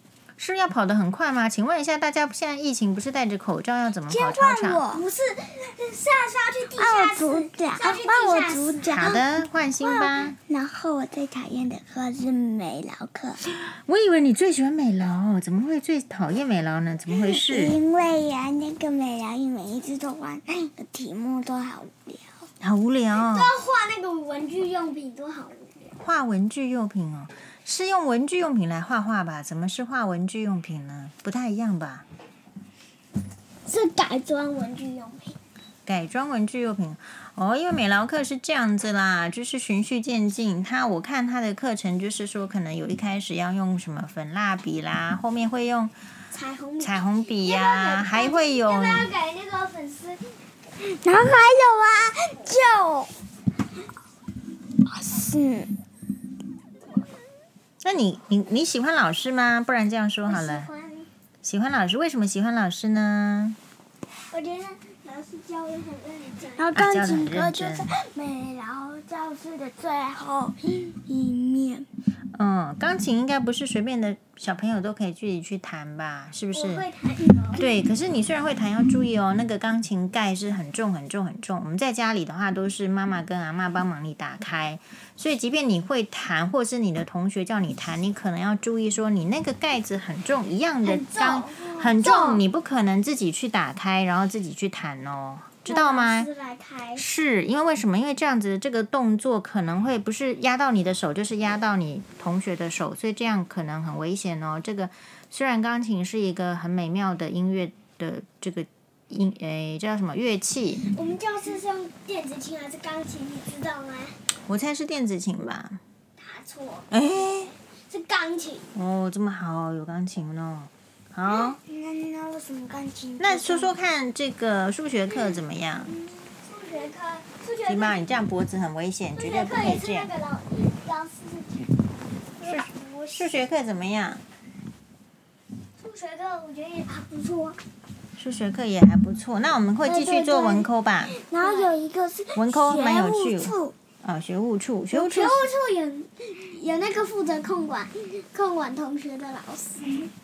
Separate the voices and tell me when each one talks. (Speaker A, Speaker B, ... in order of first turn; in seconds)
Speaker A: 0.4-4.8, 8.9-10.4, 13.6-17.8, 22.6-23.5, 26.0-32.0, 35.9-45.9, 46.8-49.1, 57.8-60.7, 61.4-63.6, 66.7-67.9, 72.3-76.8, 77.5-96.3, 97.0-110.8, 114.5-115.8, 116.9-117.5, 118.7-121.6, 123.2-125.9, 127.6-130.1, 132.4-134.2, 138.2-141.1, 142.3-145.5
Speaker B: 4.1-5.0, 6.7-9.3, 10.4-13.4, 17.1-22.3, 50.8-53.1, 54.9-55.7, 66.6-71.8, 121.3-123.7, 139.8-143.7
Speaker C: 4.9-9.0, 23.1-25.9, 33.6-35.4, 46.3-50.2, 60.3-61.1, 64.3-66.7, 76.5-77.7, 90.8-92.4, 95.6-97.0, 110.8-114.2, 116.2-116.9, 117.9-118.7, 126.3-128.0, 129.2-131.7, 132.4-133.3, 135.8-137.6, 141.4-141.7, 144.9-150.1